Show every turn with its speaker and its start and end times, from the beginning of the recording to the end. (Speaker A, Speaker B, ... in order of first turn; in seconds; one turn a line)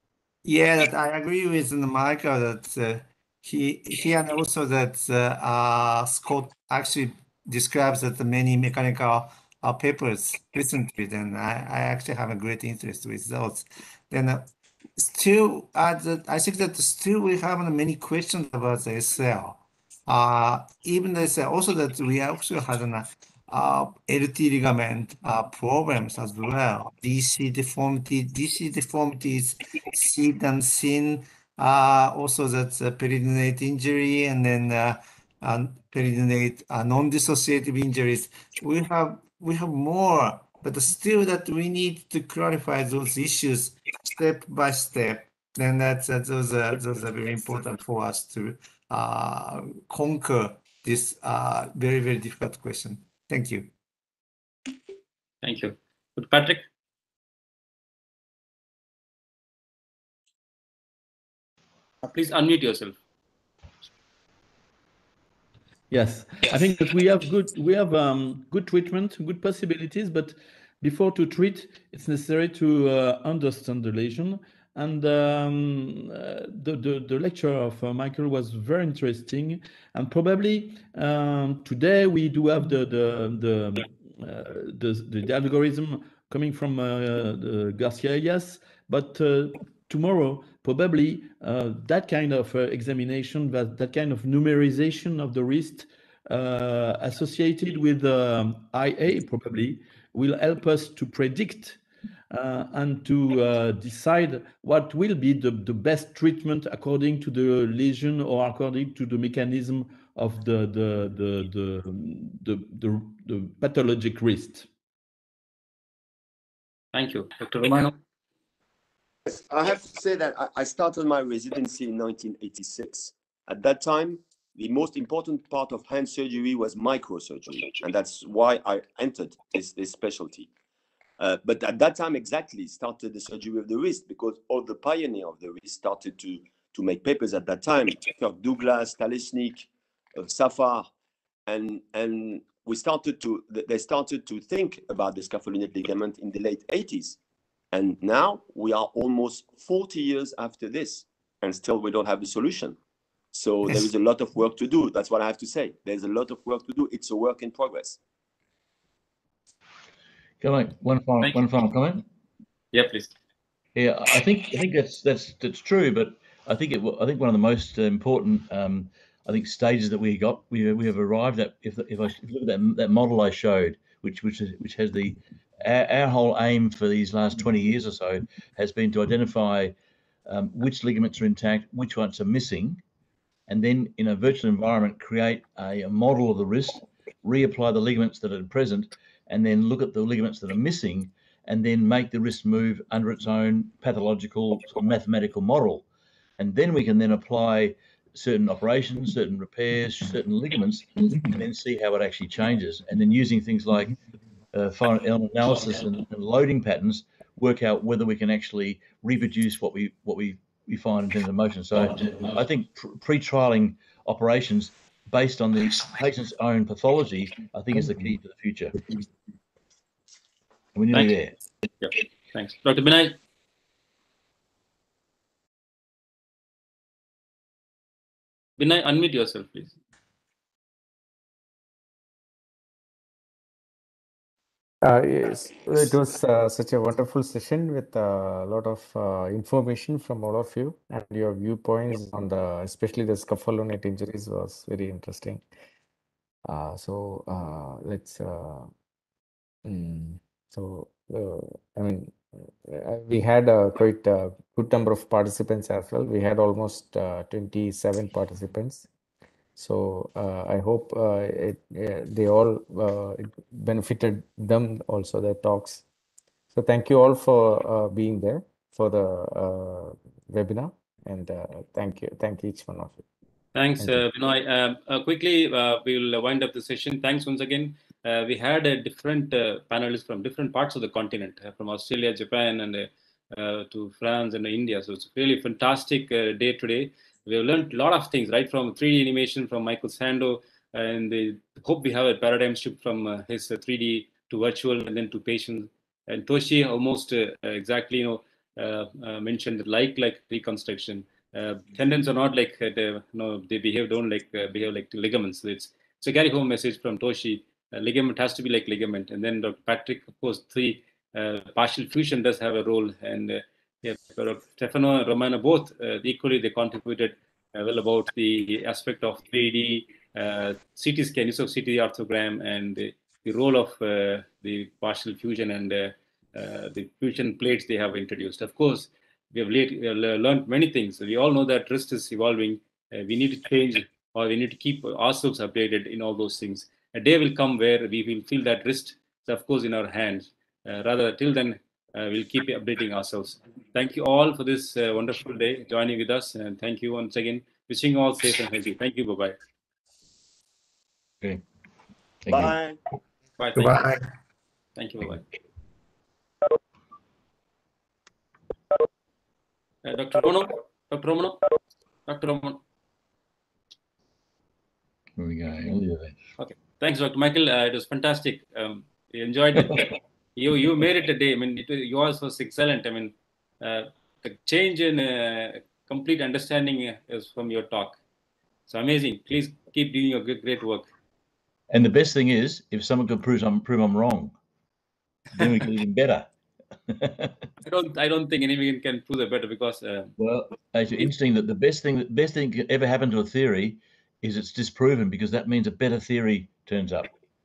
Speaker A: 0.5-53.7
Speaker B: 55.4-56.7
Speaker B: 62.0-63.0
Speaker C: 65.9-101.8
Speaker C: 102.3-114.7
Speaker B: 116.9-118.0
Speaker D: 119.3-130.5
Speaker D: 131.2-140.9
Speaker D: 141.5-147.2
Speaker D: 147.7-152.8
Speaker D: 153.3-158.0
Speaker E: 160.4-162.0
Speaker B: 162.7-163.1
Speaker E: 163.8-179.8
Speaker E: 180.3-182.8
Speaker E: 183.5-195.8
Speaker E: 196.4-204.0
Speaker E: 204.5-218.8
Speaker E: 220.8-221.3
Speaker B: 221.8-223.2
Speaker B: 228.6-229.8
Speaker F: 234.8-245.4
Speaker F: 246.5-248.7
Speaker F: 249.7-258.9
Speaker F: 259.6-265.8
Speaker F: 266.5-273.0
Speaker B: 273.6-349.4
Speaker E: 352.2-352.6
Speaker D: 352.3-352.8
Speaker B: 353.4-353.9
Speaker A: 353.6-354.1
Speaker B: 354.8-355.3
Speaker B: 359.8-361.4
Speaker B: 362.1-362.6
Speaker E: 365.2-366.2
Speaker B: 366.4-378.0
Speaker B: 378.7-380.9
Speaker E: 381.7-384.3
Speaker E: 385.4-386.3
Speaker E: 386.9-387.4
Speaker B: 387.6-390.1
Speaker E: 390.2-397.1